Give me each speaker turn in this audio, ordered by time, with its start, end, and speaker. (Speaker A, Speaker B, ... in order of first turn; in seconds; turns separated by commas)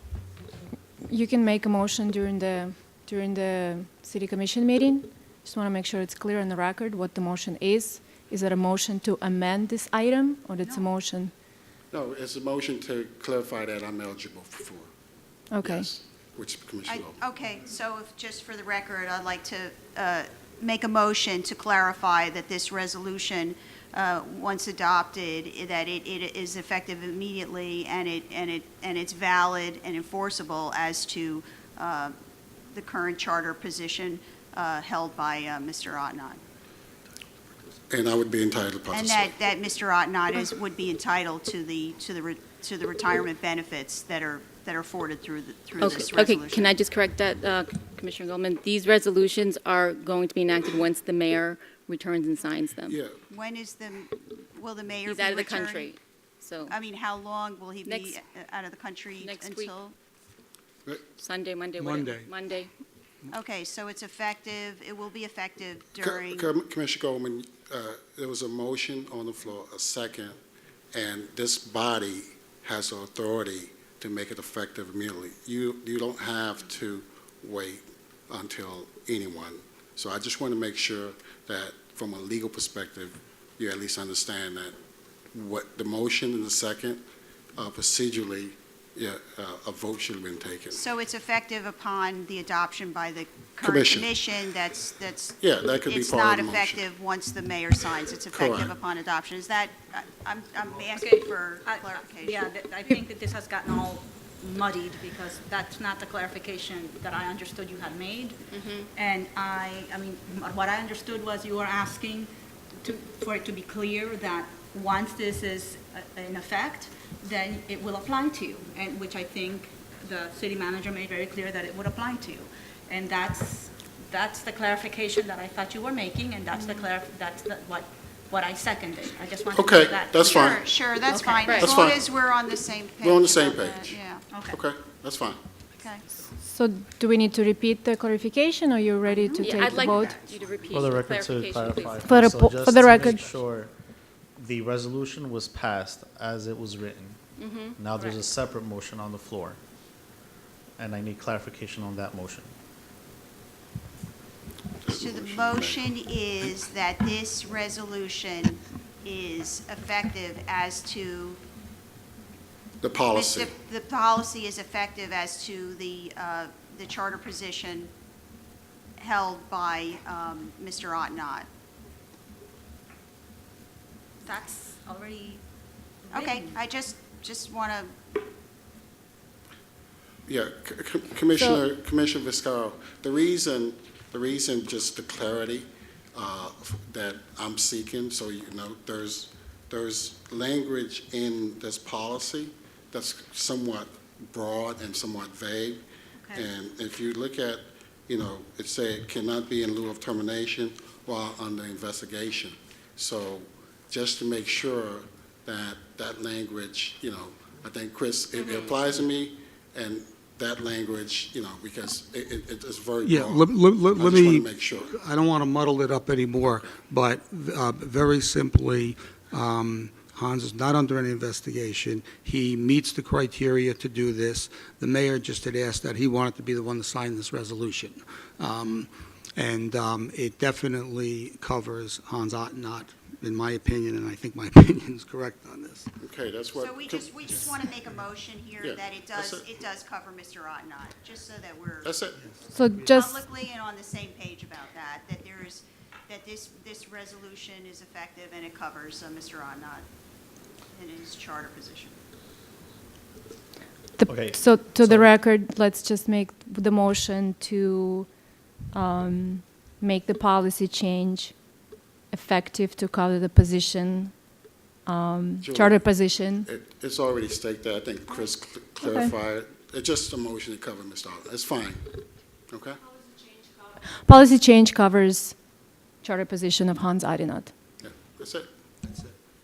Speaker A: 1.1-11.3, Speaker B: 11.9-14.9, Speaker A: 15.5-15.9, Speaker B: 15.6-17.2, Speaker C: 16.9-32.1, Speaker C: 32.7-36.4, Speaker B: 37.9-39.3, Speaker C: 38.9-46.7, Speaker D: 45.8-53.0, Speaker B: 45.9-46.2, Speaker B: 52.9-53.1, Speaker C: 53.3-55.9, Speaker D: 55.0-56.8, Speaker C: 56.7-59.9, Speaker D: 57.8-58.1, Speaker D: 59.1-59.7, Speaker D: 61.2-62.7, Speaker E: 61.8-62.3, Speaker C: 63.3-66.5, Speaker B: 66.0-70.4, Speaker B: 70.9-84.8, Speaker B: 85.3-87.0, Speaker B: 87.5-90.8, Speaker C: 90.7-102.5, Speaker B: 93.6-94.1, Speaker B: 95.4-96.9, Speaker B: 98.3-98.7, Speaker F: 101.0-108.4, Speaker D: 108.5-108.9, Speaker F: 108.9-112.3, Speaker F: 112.8-131.7, Speaker B: 129.5-130.6, Speaker C: 130.2-134.2, Speaker D: 131.4-131.8, Speaker B: 131.6-132.0, Speaker B: 133.0-134.0, Speaker F: 134.3-134.6, Speaker B: 134.5-135.4, Speaker C: 135.8-136.0, Speaker A: 136.4-140.2, Speaker F: 139.0-140.8, Speaker D: 139.4-142.2, Speaker G: 140.7-143.7, Speaker A: 142.0-143.3, Speaker G: 144.4-147.2, Speaker D: 147.4-148.1, Speaker G: 147.8-149.6, Speaker G: 150.8-152.5, Speaker B: 154.8-155.9, Speaker C: 154.9-161.4, Speaker B: 162.8-163.5, Speaker C: 163.1-167.9, Speaker C: 169.0-171.5, Speaker F: 174.2-175.4, Speaker F: 176.1-176.6, Speaker C: 176.1-177.9, Speaker B: 180.2-195.8, Speaker A: 181.4-181.6, Speaker B: 196.3-214.9, Speaker D: 208.4-208.7, Speaker E: 213.0-235.9, Speaker B: 236.0-237.1, Speaker C: 236.6-241.9, Speaker B: 238.6-239.4, Speaker B: 241.8-242.3, Speaker A: 242.5-243.2, Speaker C: 242.8-249.8, Speaker C: 250.7-252.0, Speaker A: 254.0-261.4, Speaker G: 254.1-255.1, Speaker A: 262.1-264.2, Speaker A: 264.8-266.5, Speaker B: 265.4-271.9, Speaker A: 268.8-269.1, Speaker B: 272.5-272.8, Speaker A: 273.8-277.5, Speaker B: 277.8-278.5, Speaker E: 278.8-279.1